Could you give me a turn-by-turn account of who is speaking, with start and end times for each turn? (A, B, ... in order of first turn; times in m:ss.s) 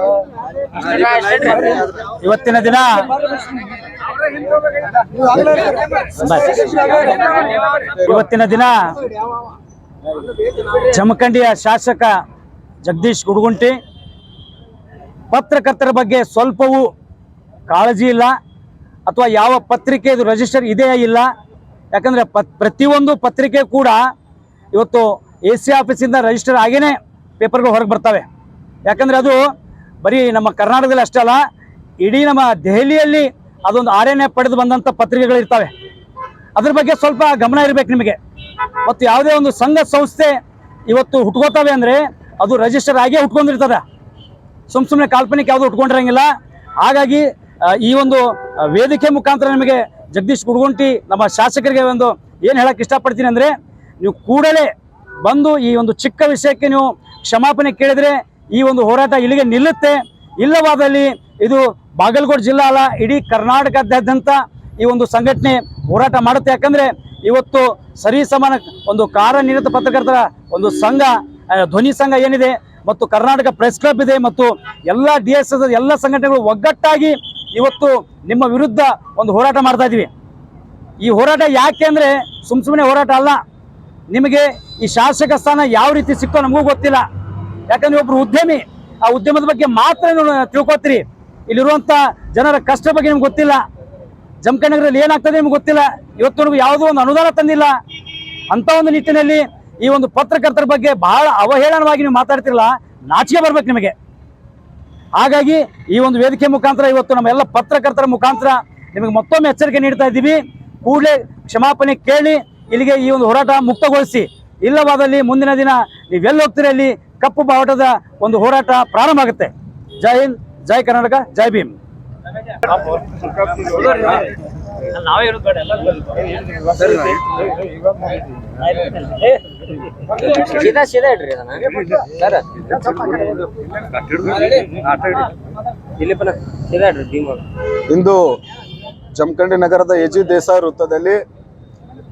0:00.8-0:01.9 A
0:02.0-0:03.1 B
0:05.3-0:05.7 C
0:06.1-0:08.9 B
0:10.7-0:12.1 B
0:12.8-0:13.8 B
0:15.3-0:16.9 B
0:17.7-0:18.3 B
0:19.1-0:21.2 B
0:21.9-0:24.0 B
0:24.7-0:28.2 B
0:28.8-0:29.4 B
0:30.0-0:31.4 B
0:32.0-0:35.7 B
0:36.6-0:38.2 B
0:38.8-0:40.3 B
0:40.9-0:43.8 B
0:44.7-0:46.3 B
0:46.8-0:54.7 B
0:55.2-1:20.1 B
1:21.0-1:23.4 B
1:24.1-1:27.0 B
1:27.7-1:33.6 B
1:34.4-1:37.7 B
1:38.5-1:43.9 B
1:45.2-2:01.7 B
2:03.5-2:04.2 B
2:04.9-2:06.0 B
2:08.8-2:09.3 B
2:10.3-2:13.4 A
2:14.2-2:14.6 A
2:16.0-2:17.4 A
2:17.9-2:18.2 C
2:19.1-2:21.2 C